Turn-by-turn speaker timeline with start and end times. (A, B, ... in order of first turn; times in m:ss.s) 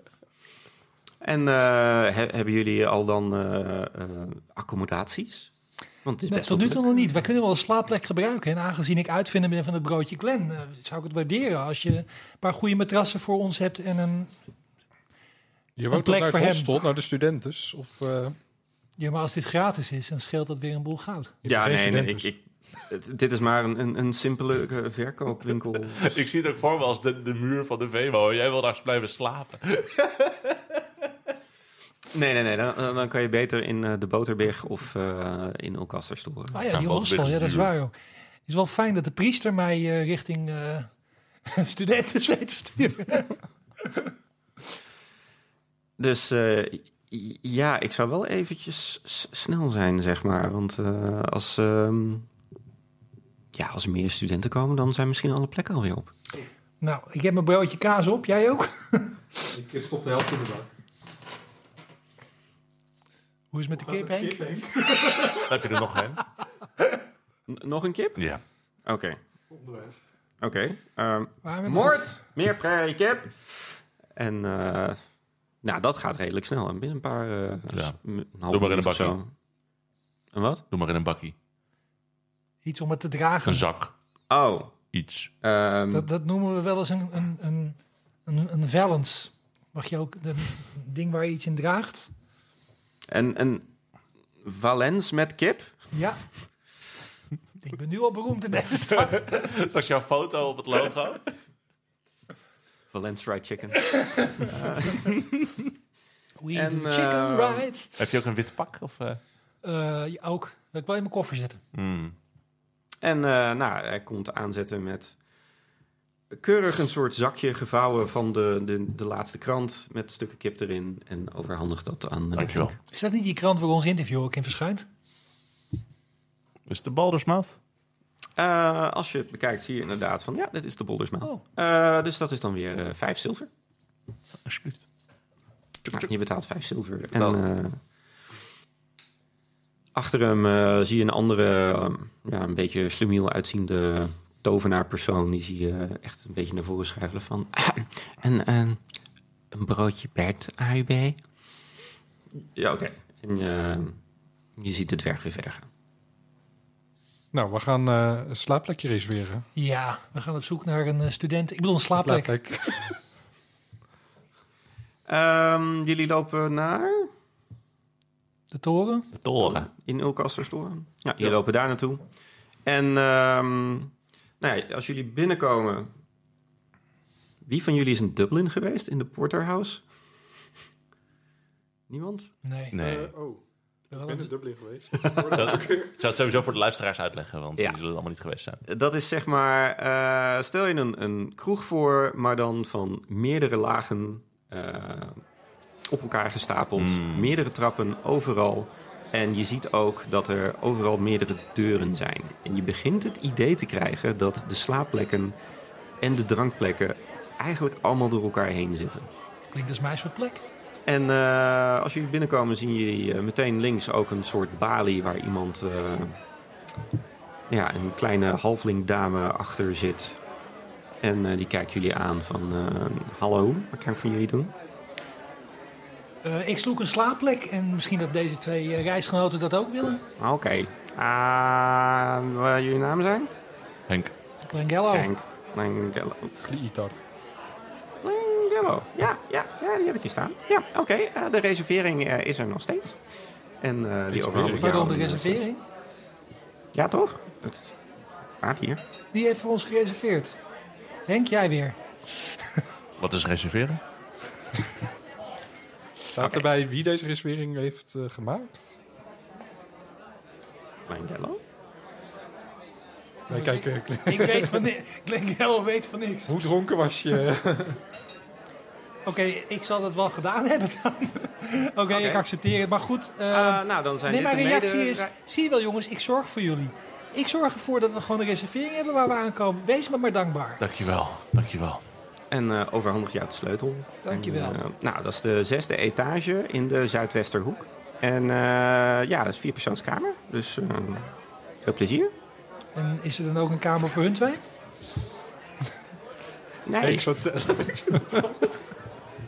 0:01.2-0:05.5 A
0:06.0-0:07.1 A
0:06.3-0:14.3 B
0:15.8-0:18.4 C
0:15.9-0:16.8 B
0:19.0-0:21.3 B
0:21.4-0:22.3 C
0:21.4-0:26.2 A
0:26.0-0:30.6 D
0:32.1-0:36.6 A
0:36.5-0:37.9 B
0:36.7-0:37.7 D
0:38.4-0:40.9 B
0:41.4-0:43.4 B
0:46.0-0:52.3 A
0:53.5-0:56.1 A
0:56.8-0:59.2 B
0:59.5-1:00.7 C
1:03.5-1:05.5 B
1:03.8-1:05.4 C
1:05.3-1:06.2 D
1:07.5-1:08.2 A
1:08.2-1:08.4 D
1:08.8-1:09.2 A
1:09.5-1:10.0 C
1:10.4-1:15.0 A
1:11.4-1:12.0 B
1:15.6-1:19.3 A
1:18.5-1:19.2 D
1:20.3-1:20.6 A
1:20.7-1:21.3 D
1:22.6-1:23.6 B
1:23.4-1:23.9 D
1:24.3-1:24.7 A
1:24.9-1:25.3 D
1:25.4-1:26.1 A
1:25.9-1:32.1 B
1:33.1-1:33.7 A
1:34.4-1:35.8 A
1:35.9-1:36.2 B
1:37.6-1:39.4 B
1:39.0-1:41.2 D
1:42.9-1:45.2 A
1:46.4-1:47.9 B
1:46.5-1:47.7 A
1:48.0-1:49.2 D
1:49.6-1:51.6 B
1:51.7-1:52.1 D
1:53.0-1:55.2 A
1:56.3-2:02.8 A
2:02.3-2:02.7 D
2:02.9-2:04.8 B
2:06.7-2:07.6 D
2:08.4-2:13.5 A
2:14.4-2:14.9 D
2:15.9-2:17.8 A
2:19.9-2:28.8 A
2:29.5-2:31.2 A
2:32.3-2:34.0 A
2:34.6-2:35.7 A
2:37.3-2:39.5 C
2:39.6-2:42.3 B
2:42.0-2:42.9 C
2:45.1-2:47.1 A
2:48.5-2:49.1 B
2:49.1-2:49.7 D
2:49.4-2:52.0 A
2:52.6-2:55.9 A
2:57.4-2:59.8 A
3:01.9-3:02.3 A
3:02.4-3:02.8 B
3:02.7-3:03.1 D
3:02.8-3:06.0 C
3:03.9-3:04.3 B
3:05.3-3:08.6 D
3:08.6-3:15.2 A
3:15.9-3:25.4 A
3:16.8-3:17.3 D
3:26.0-3:29.1 A
3:29.5-3:30.4 B
3:30.8-3:36.2 A
3:37.5-3:40.2 A
3:41.0-3:44.5 A
3:46.2-3:50.0 B
3:50.2-3:53.3 A
3:54.4-3:55.1 B
3:54.9-3:56.3 A
3:56.4-3:57.0 C
3:58.0-4:03.0 A
4:03.6-4:05.4 A
4:04.1-4:04.8 C
4:04.5-4:05.6 B
4:06.7-4:07.7 A
4:08.4-4:08.8 A
4:09.1-4:10.4 B
4:11.1-4:12.6 B
4:13.0-4:13.8 D
4:16.1-4:18.8 C
4:16.2-4:16.4 A
4:20.9-4:21.4 A
4:23.3-4:24.6 C
4:23.3-4:26.5 B
4:26.3-4:27.8 C
4:29.0-4:40.6 B
4:31.9-4:32.2 A
4:33.3-4:35.1 A
4:40.6-4:41.8 D
4:42.3-4:52.1 A
4:44.0-4:44.6 B
4:52.7-4:54.4 B
4:56.6-4:57.1 A
4:56.8-4:58.4 C